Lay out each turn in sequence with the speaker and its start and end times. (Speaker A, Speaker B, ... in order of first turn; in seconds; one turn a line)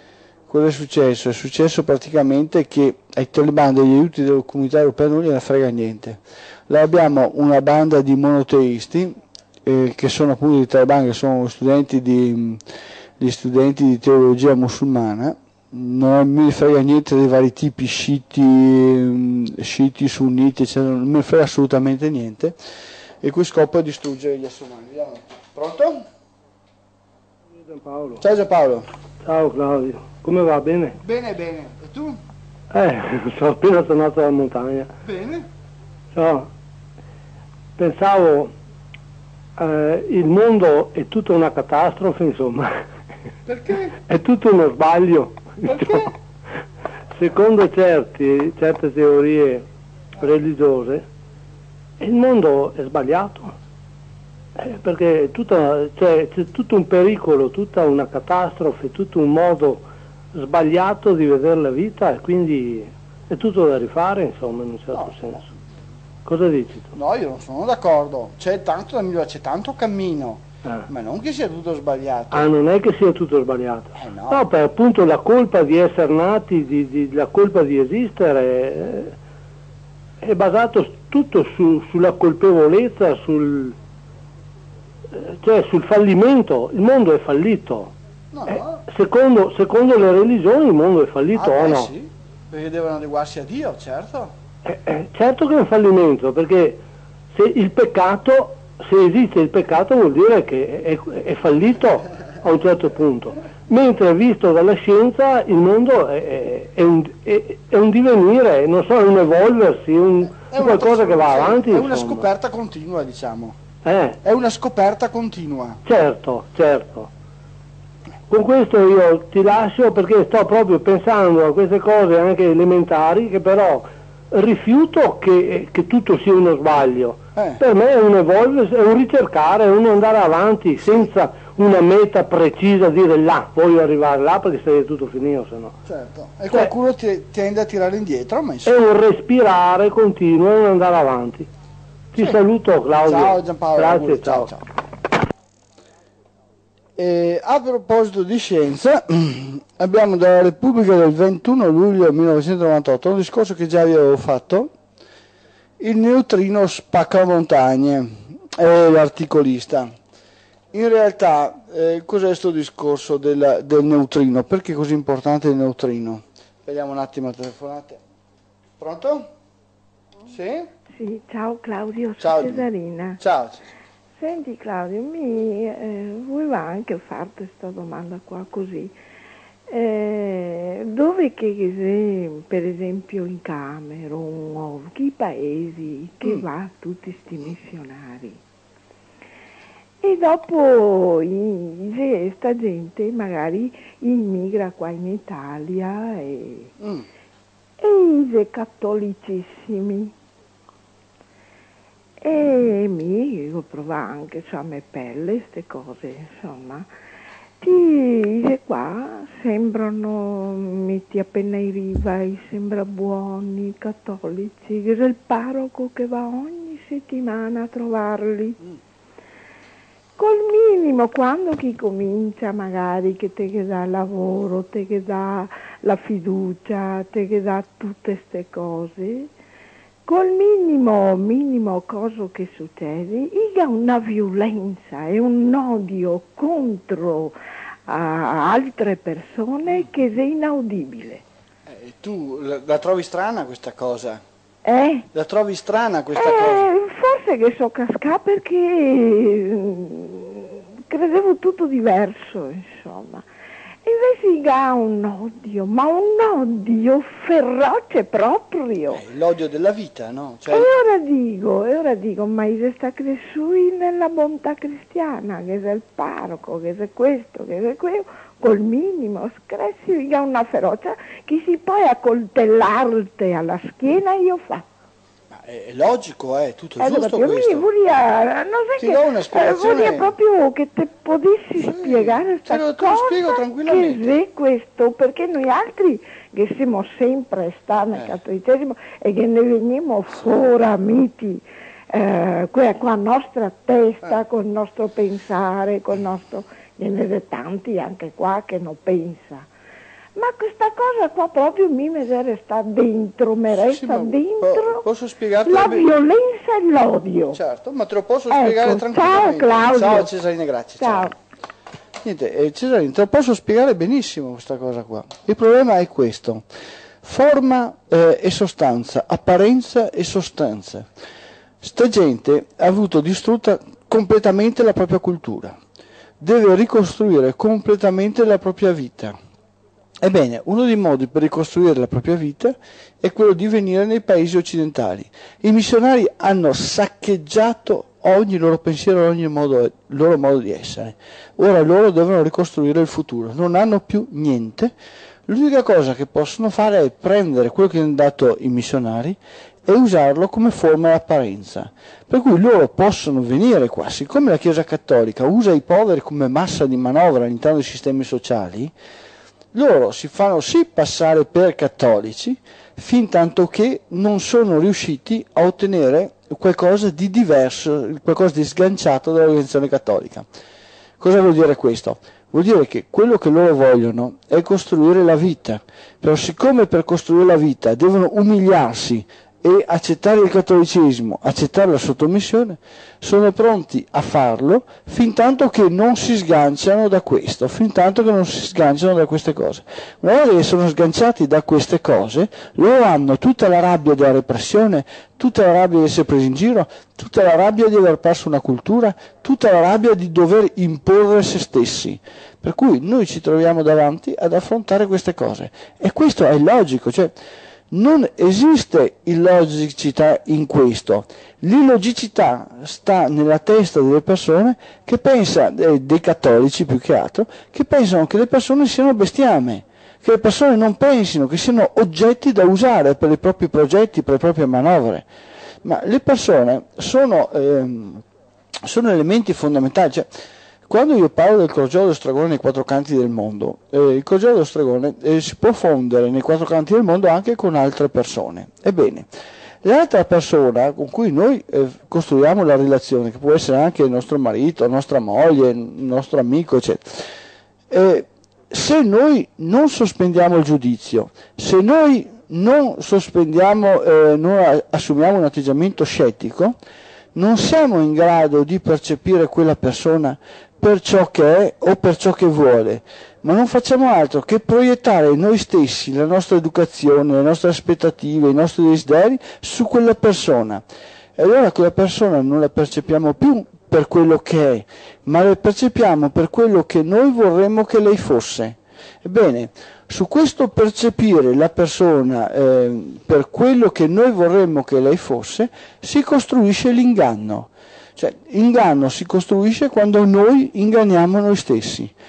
Speaker A: 0.5-12.6
Speaker A: 13.2-22.6
Speaker A: 23.2-26.0
Speaker B: 27.6-28.2
Speaker A: 28.2-28.9
Speaker B: 29.2-31.0
Speaker A: 31.0-32.2
Speaker B: 32.7-34.9
Speaker A: 35.0-35.5
Speaker B: 36.1-36.5
Speaker B: 37.8-38.5
Speaker B: 39.6-42.8
Speaker A: 43.5-44.0
Speaker B: 44.1-46.1
Speaker A: 45.6-46.1
Speaker B: 47.1-49.6
Speaker B: 50.2-51.1
Speaker B: 52.0-53.6
Speaker B: 54.6-65.5
Speaker B: 66.2-66.9
Speaker A: 66.9-72.5
Speaker B: 72.3-79.1
Speaker A: 74.0-74.4
Speaker B: 80.2-83.8
Speaker B: 85.1-87.9
Speaker A: 88.3-88.8
Speaker B: 88.5-91.9
Speaker A: 91.3-94.3
Speaker B: 94.6-112.3
Speaker A: 110.5-113.6
Speaker B: 113.8-114.2
Speaker A: 114.2-115.8
Speaker B: 115.8-117.1
Speaker B: 118.3-135.8
Speaker A: 135.9-138.7
Speaker B: 138.6-141.5
Speaker B: 142.1-144.5
Speaker A: 143.0-144.6
Speaker A: 147.0-154.7
Speaker A: 155.8-159.9
Speaker A: 160.7-168.0
Speaker A: 168.8-169.3
Speaker A: 170.3-170.7
Speaker C: 171.0-173.2
Speaker A: 172.2-172.7
Speaker A: 173.2-173.7
Speaker C: 174.2-178.9
Speaker C: 179.7-188.4
Speaker C: 190.0-196.7
Speaker A: 196.8-197.1
Speaker C: 197.8-200.1
Speaker C: 202.2-206.9
Speaker C: 207.6-218.6
Speaker C: 220.2-229.3
Speaker C: 230.1-237.3
Speaker C: 237.9-241.2
Speaker A: 241.7-244.2
Speaker C: 244.6-245.1
Speaker A: 245.1-246.7
Speaker C: 246.1-253.2
Speaker C: 253.9-259.0
Speaker A: 258.9-260.7
Speaker C: 260.5-274.7
Speaker A: 275.4-277.6
Speaker C: 276.8-299.5
Speaker A: 278.8-280.1
Speaker A: 281.6-284.2
Speaker C: 300.1-304.9
Speaker A: 303.5-305.9
Speaker C: 305.4-307.4
Speaker A: 307.3-311.1
Speaker C: 308.3-310.1
Speaker C: 310.8-311.1
Speaker A: 312.0-316.4
Speaker A: 317.0-320.9
Speaker A: 321.6-325.6
Speaker A: 326.2-329.2
Speaker A: 330.0-344.7
Speaker A: 345.3-358.7
Speaker A: 359.5-370.2
Speaker A: 371.0-407.1
Speaker A: 407.7-425.1
Speaker A: 425.6-428.0
Speaker A: 428.6-430.1
Speaker A: 430.7-439.1
Speaker A: 439.6-447.0
Speaker A: 447.7-456.6
Speaker A: 457.1-470.6
Speaker A: 471.2-491.9